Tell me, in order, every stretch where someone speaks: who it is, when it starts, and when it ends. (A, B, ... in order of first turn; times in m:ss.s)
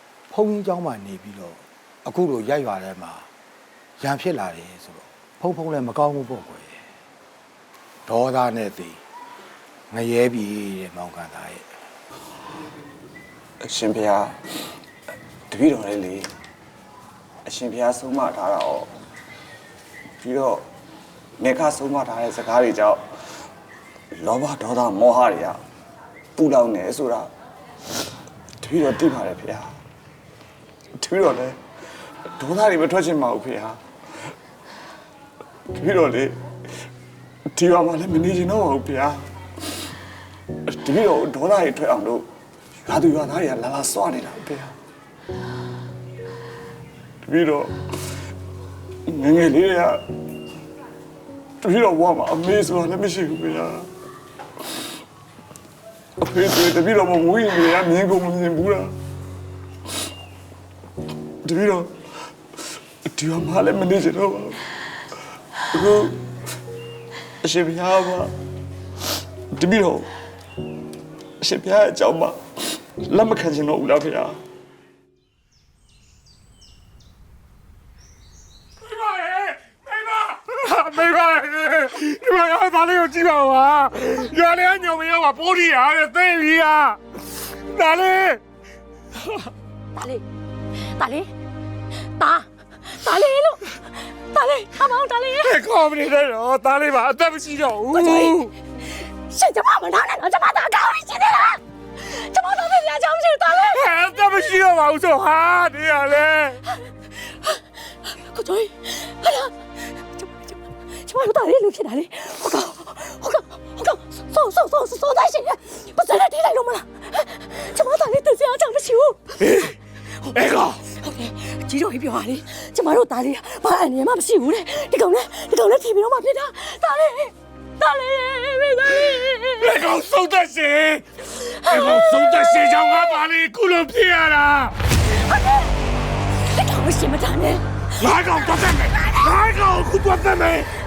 0:00.3-0:03.3 A
0:04.0-0:06.8 A
0:08.0-0:09.0 A
0:09.9-0:11.6 A
0:13.6-0:14.4 B
0:15.5-0:16.2 B
0:17.4-0:18.9 B
0:20.2-0:20.6 B
0:21.4-0:23.0 B
0:24.2-0:25.6 B
0:26.4-0:27.3 B
0:28.6-0:29.7 B
0:31.0-0:31.6 B
0:32.4-0:33.8 B
0:35.7-0:36.4 B
0:37.5-0:39.2 B
0:40.7-0:42.2 B
0:42.8-0:44.7 B
0:47.2-0:47.8 B
0:49.1-0:50.0 B
0:51.6-0:53.9 B
0:56.2-0:58.9 B
1:01.4-1:02.0 B
1:03.1-1:04.7 B
1:05.7-1:06.2 B
1:07.4-1:08.3 B
1:09.5-1:10.1 B
1:11.4-1:14.4 B
1:18.8-1:27.0 C
1:27.7-1:28.4 C
1:30.0-1:30.2 D
1:31.0-1:31.3 D
1:32.2-1:33.7 D
1:34.3-1:35.6 D
1:35.4-1:38.5 C
1:37.9-1:38.4 D
1:39.3-1:43.8 D
1:43.6-1:46.6 C
1:48.3-1:49.5 D
1:50.2-1:59.5 D
1:59.4-1:59.7 C
2:00.3-2:00.8 C
2:01.0-2:09.7 D
2:09.1-2:11.0 C
2:11.6-2:13.0 D
2:11.6-2:14.7 C
2:15.0-2:15.7 D
2:16.5-2:18.1 D
2:18.0-2:20.7 C
2:19.0-2:19.3 D